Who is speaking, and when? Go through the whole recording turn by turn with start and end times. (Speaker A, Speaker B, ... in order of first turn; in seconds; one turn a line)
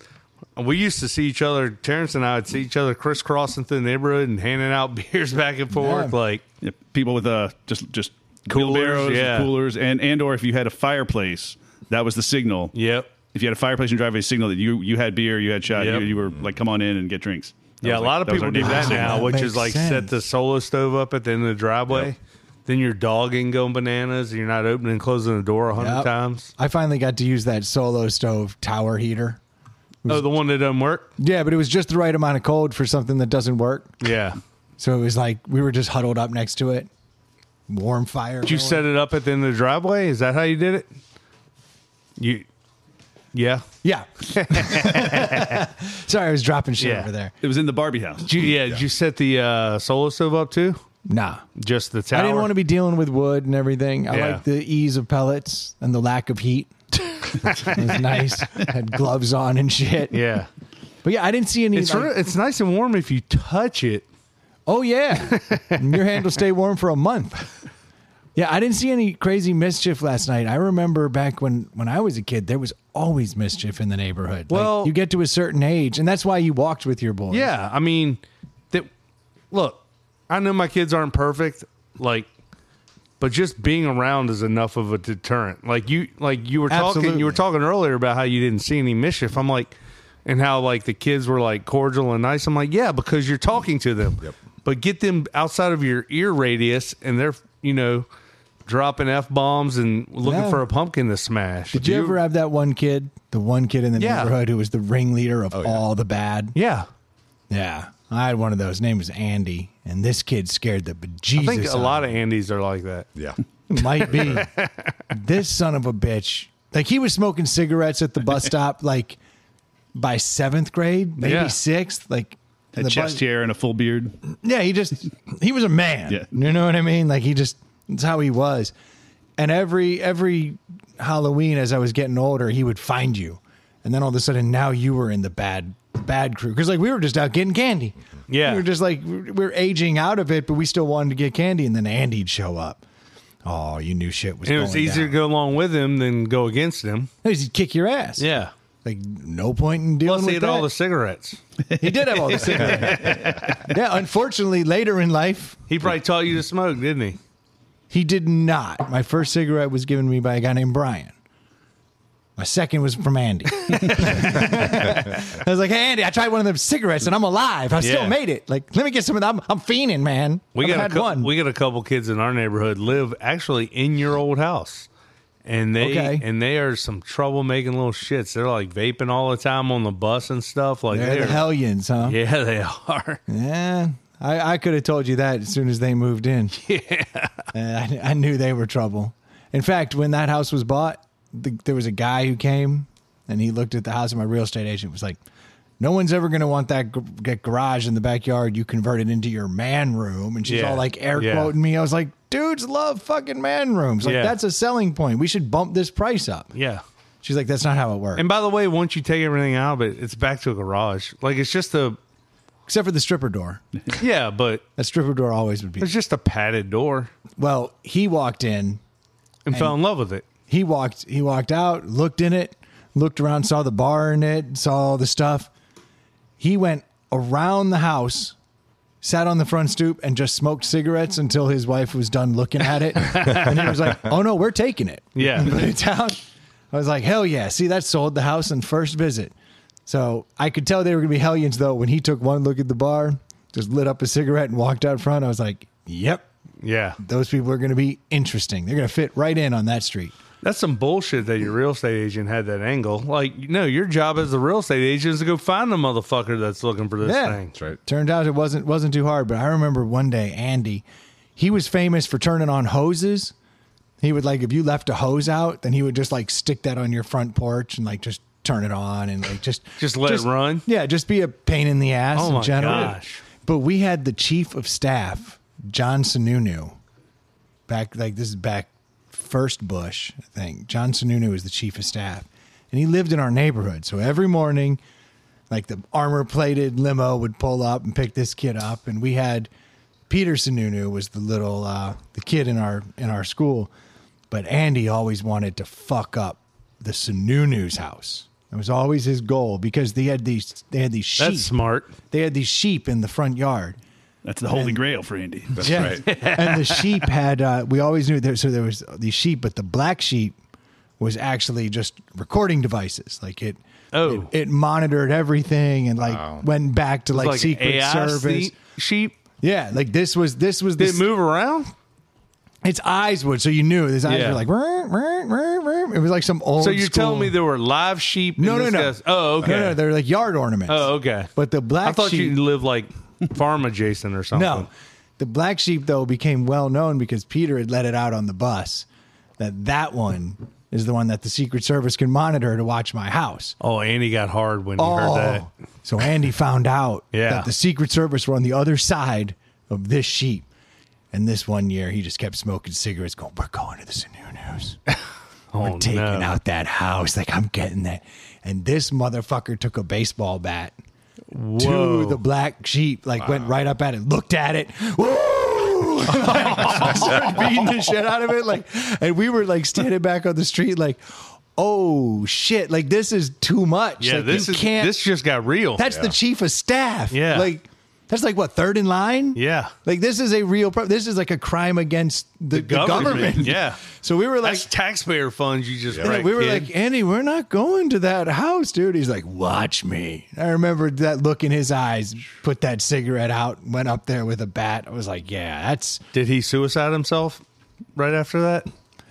Speaker A: 0.6-6.4
Speaker B: 5.7-6.2
Speaker C: 6.6-12.7
Speaker A: 8.5-9.5
Speaker A: 12.7-13.1
Speaker C: 13.3-19.3
Speaker A: 15.7-16.1
Speaker D: 16.3-16.5
Speaker A: 17.8-26.5
Speaker B: 18.6-20.1
Speaker B: 25.8-29.4
Speaker A: 30.1-31.1
Speaker B: 31.2-34.0
Speaker A: 34.0-34.4
Speaker B: 34.8-36.9
Speaker B: 37.7-38.8
Speaker A: 38.4-40.9
Speaker A: 42.2-42.4
Speaker A: 43.3-43.7
Speaker B: 43.8-47.3
Speaker A: 44.2-45.6
Speaker A: 46.8-47.1
Speaker C: 47.4-48.3
Speaker A: 48.2-50.8
Speaker B: 51.1-51.4
Speaker A: 51.5-52.5
Speaker B: 52.1-60.2
Speaker A: 54.1-54.4
Speaker A: 57.4-58.0
Speaker A: 60.1-60.5
Speaker B: 61.0-62.1
Speaker A: 61.7-64.0
Speaker B: 64.7-67.5
Speaker A: 65.2-65.9
Speaker B: 68.3-77.5
Speaker A: 74.5-74.9
Speaker A: 77.3-78.9
Speaker A: 79.5-82.3
Speaker A: 83.2-89.7
Speaker B: 86.7-87.4
Speaker A: 90.2-98.0
Speaker A: 98.6-102.2
Speaker B: 100.2-100.6
Speaker B: 101.7-106.5
Speaker A: 104.0-104.3
Speaker D: 105.5-105.8
Speaker A: 106.5-106.9
Speaker B: 107.5-112.1
Speaker A: 111.3-113.1
Speaker D: 113.2-113.4
Speaker B: 113.7-114.5
Speaker A: 113.8-114.9
Speaker D: 114.0-114.4
Speaker B: 115.1-119.2
Speaker B: 119.9-123.2
Speaker A: 121.2-121.5
Speaker C: 122.7-124.2
Speaker B: 124.4-128.7
Speaker B: 129.4-142.8
Speaker A: 138.3-138.7
Speaker B: 143.4-145.2
Speaker A: 144.4-147.1
Speaker B: 147.2-148.3
Speaker A: 148.2-148.5
Speaker B: 148.8-150.7
Speaker A: 150.0-151.4
Speaker B: 151.8-155.6
Speaker A: 152.3-153.7
Speaker C: 152.8-153.4
Speaker A: 155.7-157.2
Speaker B: 157.9-161.1
Speaker B: 162.4-171.3
Speaker A: 163.7-164.4
Speaker A: 167.8-168.2
Speaker A: 170.6-174.9
Speaker A: 175.4-181.4
Speaker B: 175.8-176.2
Speaker B: 180.9-182.2
Speaker A: 182.0-183.2
Speaker B: 183.3-186.6
Speaker A: 186.5-187.4
Speaker B: 187.5-195.2
Speaker B: 195.8-206.5
Speaker A: 200.4-201.5
Speaker A: 204.0-204.3
Speaker A: 206.5-206.8
Speaker B: 207.2-208.2
Speaker A: 208.1-212.0
Speaker B: 212.7-213.6
Speaker A: 213.9-214.6
Speaker B: 214.8-215.9
Speaker A: 215.8-217.1
Speaker B: 217.4-218.8
Speaker A: 219.4-220.2
Speaker B: 219.5-219.8
Speaker B: 220.5-225.5
Speaker B: 226.4-228.3
Speaker B: 229.0-239.3
Speaker A: 233.1-233.8
Speaker A: 235.2-235.6
Speaker B: 239.8-246.2
Speaker A: 246.6-247.0
Speaker B: 247.0-250.2
Speaker A: 250.4-257.5
Speaker B: 257.0-260.8
Speaker B: 261.4-263.3
Speaker B: 264.0-276.8
Speaker A: 269.8-270.6
Speaker A: 272.1-273.2
Speaker C: 272.6-272.9
Speaker B: 277.7-284.8
Speaker B: 285.5-289.5
Speaker B: 290.1-293.7
Speaker B: 294.3-301.5
Speaker A: 301.2-301.9
Speaker B: 302.1-303.8
Speaker C: 304.2-305.9
Speaker B: 304.5-304.8
Speaker D: 305.6-306.1
Speaker B: 305.6-310.3
Speaker A: 306.0-306.9
Speaker B: 311.0-318.6
Speaker A: 313.9-314.3
Speaker D: 316.0-316.4
Speaker A: 317.1-319.1
Speaker B: 319.4-321.0
Speaker A: 320.8-321.7
Speaker B: 322.6-327.3
Speaker A: 324.1-324.4
Speaker A: 326.6-329.8
Speaker B: 328.4-332.4
Speaker A: 330.7-331.3
Speaker A: 331.8-334.7
Speaker B: 334.3-338.9
Speaker B: 339.4-343.6
Speaker A: 343.6-345.4
Speaker B: 344.8-350.4
Speaker A: 347.1-347.5
Speaker B: 351.1-354.8
Speaker A: 355.5-356.4
Speaker B: 355.6-360.7
Speaker A: 361.3-362.2
Speaker B: 361.6-374.9
Speaker D: 363.2-363.5
Speaker A: 366.2-367.4
Speaker D: 366.9-367.4
Speaker A: 374.0-375.9
Speaker B: 375.8-384.6
Speaker D: 375.8-376.1
Speaker A: 377.1-377.5
Speaker A: 379.3-379.7
Speaker A: 382.5-383.8
Speaker A: 384.4-386.7
Speaker D: 385.9-386.2
Speaker B: 386.0-396.0
Speaker A: 396.1-397.4
Speaker A: 397.9-398.7